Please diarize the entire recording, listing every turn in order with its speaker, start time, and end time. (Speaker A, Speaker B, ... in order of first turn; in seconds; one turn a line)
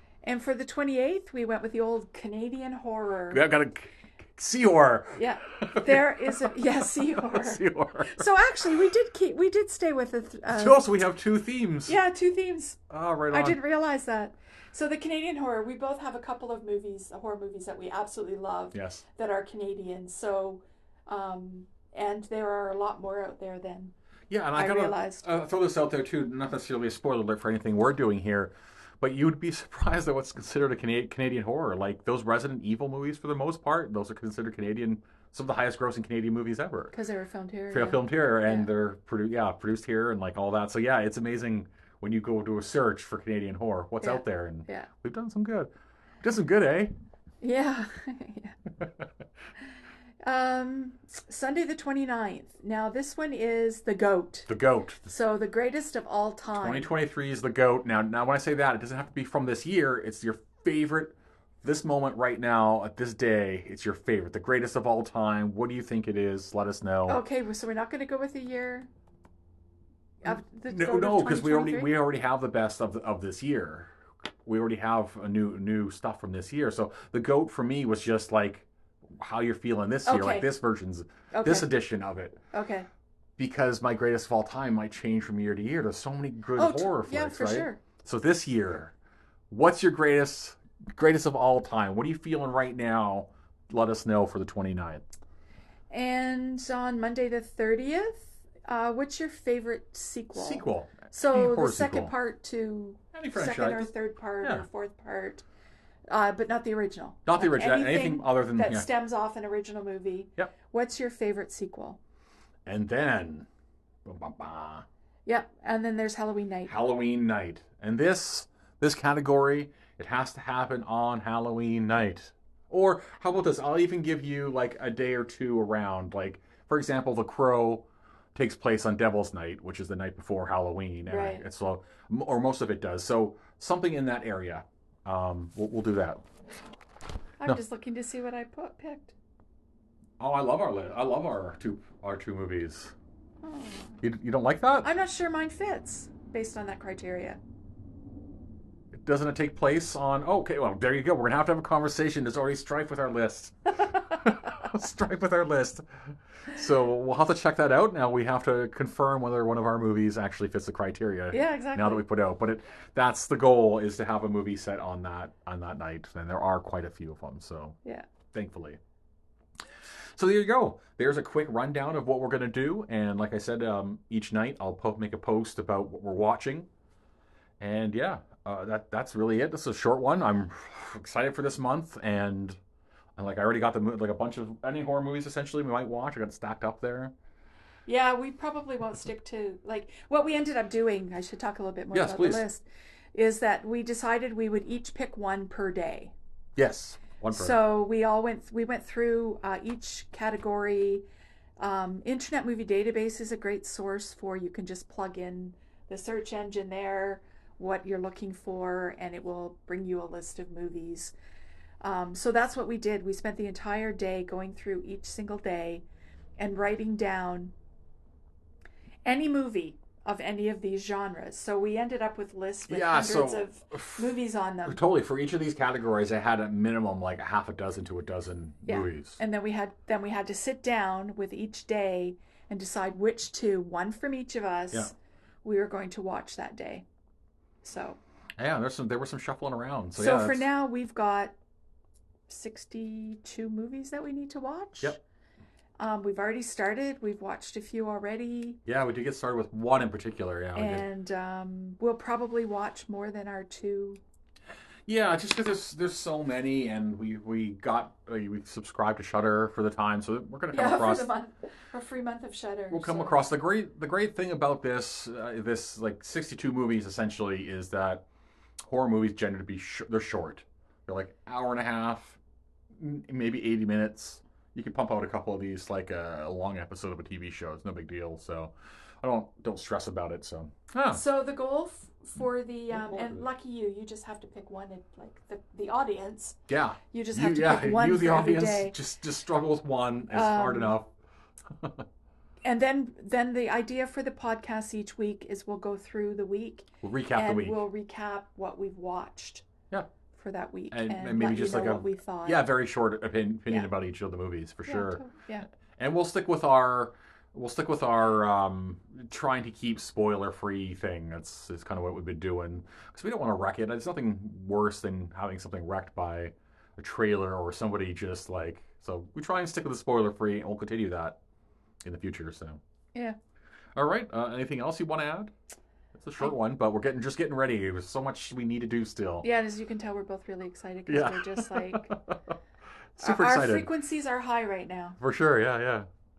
Speaker A: 0.2-3.5
Speaker B: 3.3-8.3
Speaker A: 5.2-10.9
Speaker B: 10.5-12.0
Speaker A: 11.9-23.9
Speaker B: 12.9-13.6
Speaker B: 18.7-19.0
Speaker B: 24.3-36.9
Speaker A: 24.6-25.3
Speaker A: 36.9-38.7
Speaker B: 37.7-45.7
Speaker A: 44.0-44.9
Speaker B: 46.2-46.9
Speaker A: 47.4-48.6
Speaker A: 50.2-54.5
Speaker B: 54.5-55.1
Speaker A: 55.0-56.9
Speaker B: 56.5-67.2
Speaker A: 67.1-68.9
Speaker A: 70.2-72.0
Speaker B: 70.2-73.9
Speaker B: 74.5-82.4
Speaker A: 80.1-80.5
Speaker A: 81.3-81.7
Speaker A: 82.5-82.9
Speaker B: 83.4-88.9
Speaker A: 86.5-87.8
Speaker B: 89.5-95.0
Speaker A: 95.9-105.5
Speaker B: 100.3-102.1
Speaker B: 103.1-103.9
Speaker A: 106.1-112.0
Speaker B: 107.3-108.9
Speaker B: 112.7-113.5
Speaker B: 114.0-114.8
Speaker A: 115.3-116.7
Speaker B: 116.7-136.2
Speaker A: 131.1-131.4
Speaker A: 137.4-139.2
Speaker B: 140.2-142.9
Speaker A: 143.4-144.0
Speaker B: 144.0-144.9
Speaker A: 144.8-147.4
Speaker B: 148.9-155.9
Speaker B: 156.5-167.8
Speaker A: 161.3-162.0
Speaker B: 168.3-168.8
Speaker B: 170.2-176.7
Speaker B: 177.6-182.6
Speaker B: 183.2-187.1
Speaker A: 187.9-196.1
Speaker B: 191.9-192.4
Speaker B: 196.6-197.6
Speaker A: 197.3-201.0
Speaker A: 201.6-211.1
Speaker A: 211.8-215.8
Speaker A: 216.4-217.5
Speaker A: 219.1-224.8
Speaker B: 222.7-224.1
Speaker B: 224.7-229.2
Speaker A: 228.7-234.9
Speaker A: 235.4-236.8
Speaker A: 237.6-238.0
Speaker B: 238.4-240.5
Speaker A: 240.0-241.3
Speaker A: 242.3-245.0
Speaker A: 245.8-248.6
Speaker B: 248.7-250.9
Speaker A: 250.6-254.0
Speaker B: 254.9-261.1
Speaker A: 260.5-263.2
Speaker B: 262.7-268.1
Speaker B: 268.6-272.2
Speaker B: 272.8-281.0
Speaker A: 280.9-286.4
Speaker B: 282.7-283.2
Speaker B: 286.5-290.9
Speaker A: 286.9-288.8
Speaker A: 290.1-290.8
Speaker A: 292.4-299.5
Speaker B: 296.8-297.6
Speaker A: 300.1-302.5
Speaker B: 300.7-305.0
Speaker A: 304.7-305.5
Speaker B: 305.8-321.2
Speaker B: 321.8-322.6
Speaker B: 323.8-325.3
Speaker B: 325.9-329.3
Speaker A: 329.2-331.9
Speaker B: 330.9-332.2
Speaker B: 333.0-333.7
Speaker A: 333.0-335.0
Speaker B: 335.0-335.9